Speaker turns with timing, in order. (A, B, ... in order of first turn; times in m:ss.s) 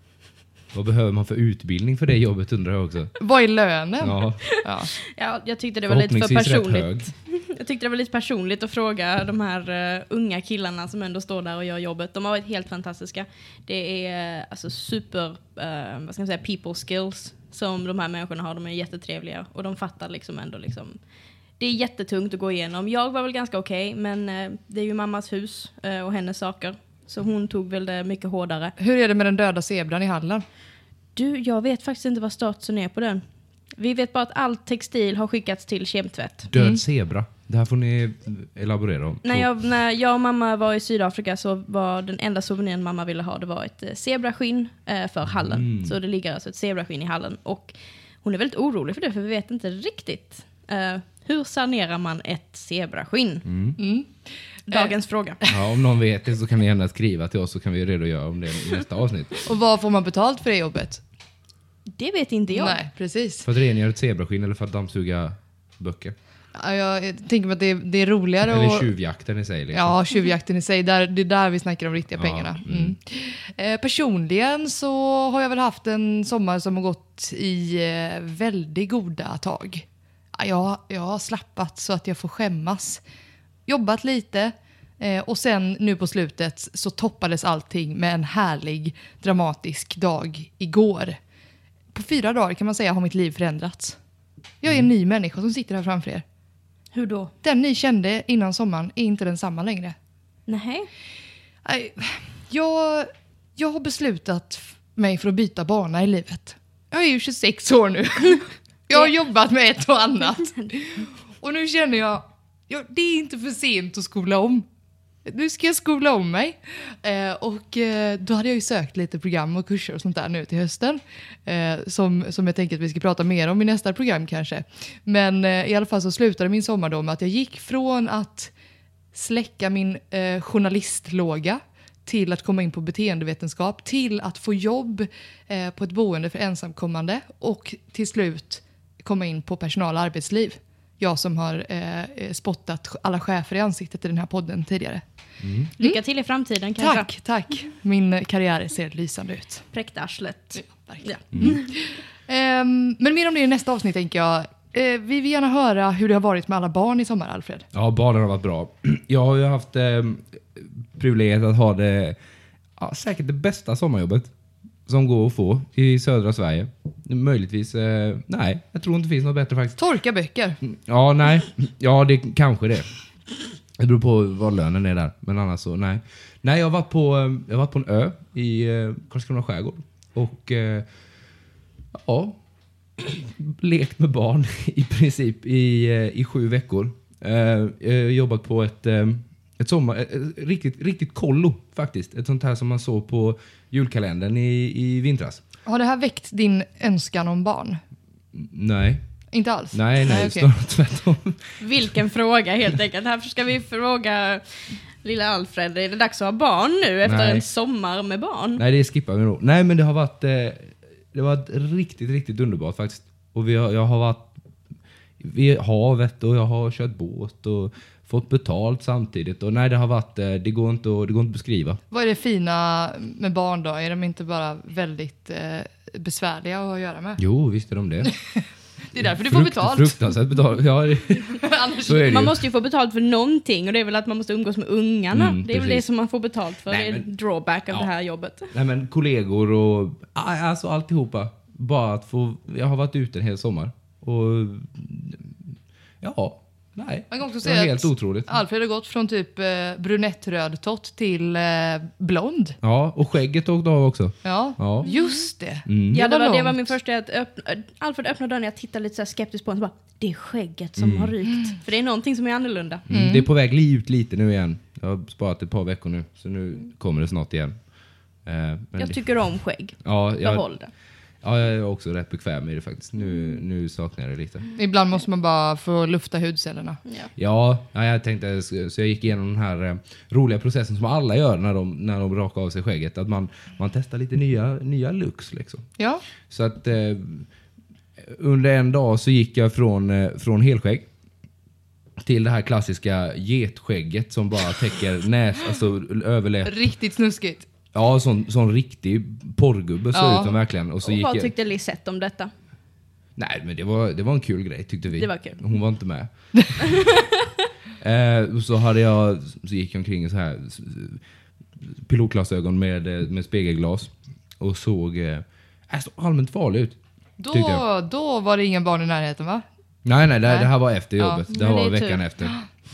0:00.7-0:03.1 A
0:03.2-0:04.9 B
0:04.0-0:04.4 A
0:04.4-0:21.0 C
0:05.9-0:07.1 A
0:21.6-0:28.7 C
0:28.8-0:30.4 B
0:31.2-0:33.2 C
0:33.8-0:36.5 C
0:36.5-0:39.5 A
0:36.5-0:36.8 B
0:39.2-0:53.4 C
0:45.5-0:46.0 A
0:53.4-0:53.8 A
0:53.8-0:54.1 B
0:54.6-0:54.9 B
0:54.7-0:55.4 C
0:55.5-0:59.4 A
0:59.4-1:01.0 B
1:01.9-1:02.8 C
1:02.5-1:03.5 B
1:03.4-1:06.1 A
1:06.5-1:08.9 B
1:08.5-1:09.9 A
1:09.7-1:23.0 B
1:12.2-1:12.9 A
1:23.7-1:31.2 B
1:31.9-1:34.0 B
1:34.6-1:36.2 B
1:36.9-1:37.3 C
1:37.4-1:39.9 B
1:40.5-1:40.9 C
1:41.6-1:54.6 B
1:55.2-2:08.5 B
2:09.1-2:25.0 B
2:25.4-2:25.7 A
2:25.8-2:27.1 C
2:26.8-2:29.6 B
2:29.7-2:31.6 C
2:30.6-2:37.6 B
2:31.3-2:31.6 A
2:37.7-2:42.2 A
2:42.8-2:44.3 A
2:44.9-2:49.8 A
2:49.8-2:50.6 B
2:50.6-2:52.9 A
2:53.8-3:00.8 A
3:01.9-3:02.4 A
3:03.0-3:15.4 A
3:15.6-3:17.8 B
3:18.3-3:19.0 A
3:19.3-3:20.5 B
3:19.7-3:21.6 A
3:21.6-3:28.6 C
3:27.0-3:27.5 A
3:28.6-3:34.3 A
3:35.2-3:41.8 A
3:41.9-3:47.2 B
3:47.2-3:48.1 A
3:48.0-3:50.1 B
3:49.0-3:52.4 A
3:51.2-3:52.2 B
3:52.0-3:58.5 C
3:55.1-3:55.8 A
3:56.7-3:57.1 A
3:58.5-4:05.4 A
4:06.0-4:08.4 A
4:07.1-4:12.6 B
4:12.6-4:14.9 A
4:14.2-4:16.7 B
4:15.6-4:16.0 A
4:15.9-4:22.8 C
4:20.8-4:21.1 A
4:22.9-4:27.5 A
4:22.9-4:23.2 B
4:28.2-4:29.0 A
4:28.8-4:30.7 C
4:29.8-4:30.4 A
4:31.2-4:34.5 A
4:34.6-4:36.8 B
4:36.8-4:37.1 C
4:37.2-4:45.7 A
4:45.8-4:46.0 B
4:46.3-4:47.3 A
4:48.0-4:50.8 A
4:52.0-4:56.5 A
4:56.4-4:57.5 B
4:57.7-5:01.3 A
4:59.9-5:00.4 B
5:00.8-5:02.3 C
5:03.2-5:06.6 A
5:04.9-5:05.4 C
5:06.6-5:07.1 C
5:07.8-5:11.0 A
5:11.6-5:16.8 A
5:17.2-5:19.4 B
5:17.3-5:17.6 A
5:19.8-5:22.4 A
5:20.2-5:21.2 B
5:21.3-5:22.1 C